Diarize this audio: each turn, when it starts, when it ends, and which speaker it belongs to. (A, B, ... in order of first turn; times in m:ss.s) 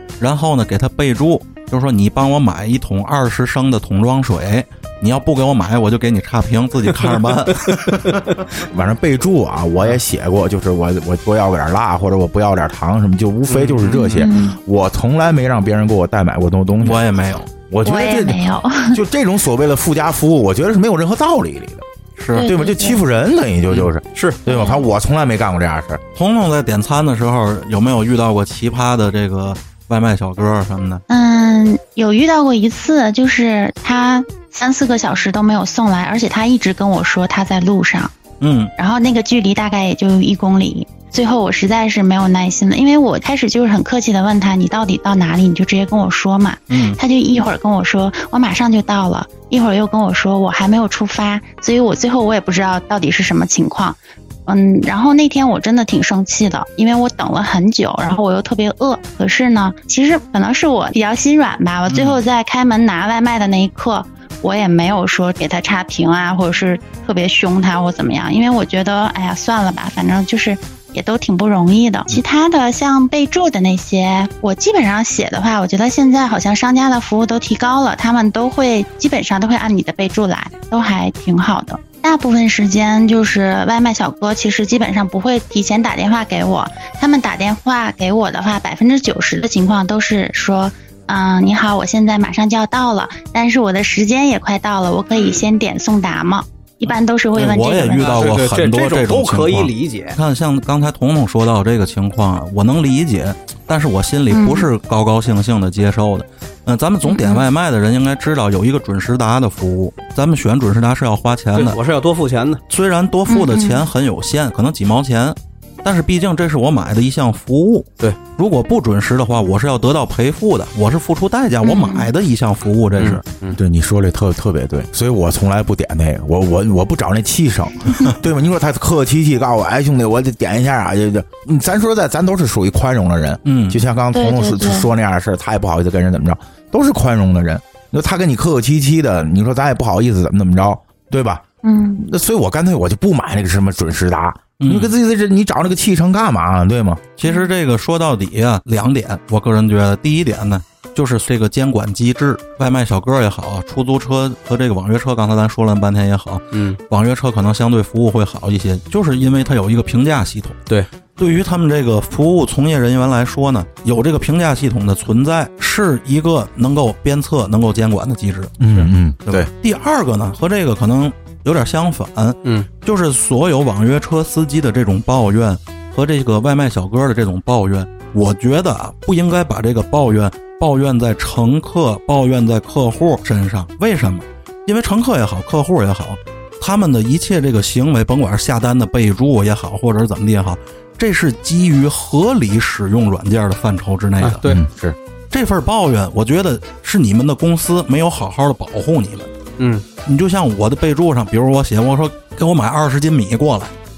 0:00.2-0:08.5 A
0:07.7-0:08.2 B
0:08.6-0:17.0 C
0:13.5-0:14.3 B
0:14.0-0:14.6 D
0:16.8-0:17.5 A
0:17.7-0:26.0 C
0:17.8-0:19.0 D
0:22.2-0:22.5 A
0:22.3-0:23.0 D
0:23.7-0:24.4 B
0:24.5-0:24.9 D
0:26.2-0:31.0 A
0:31.1-0:38.1 D
0:38.4-0:38.7 A
0:38.8-1:38.2 D
0:46.7-0:47.0 A
1:01.9-1:02.2 A
1:37.4-1:51.8 A
1:37.9-1:40.2 B
1:44.3-1:44.7 D
1:47.0-1:47.5 D
1:51.6-1:52.6 B
1:52.7-2:03.2 A
1:53.3-1:53.9 D
2:01.6-2:02.1 D
2:03.0-2:03.6 B
2:03.5-2:21.4 C
2:13.5-2:13.8 A
2:14.1-2:14.9 D
2:21.6-2:22.0 D
2:22.0-2:27.0 C
2:24.6-2:25.0 A
2:27.2-2:40.6 A
2:27.2-2:27.5 D
2:36.5-2:36.8 B
2:41.2-3:14.4 A
2:48.6-2:49.5 C
3:14.2-3:14.6 B
3:14.5-3:15.0 C
3:15.3-3:19.3 A
3:19.6-3:19.8 B
3:20.0-3:23.7 A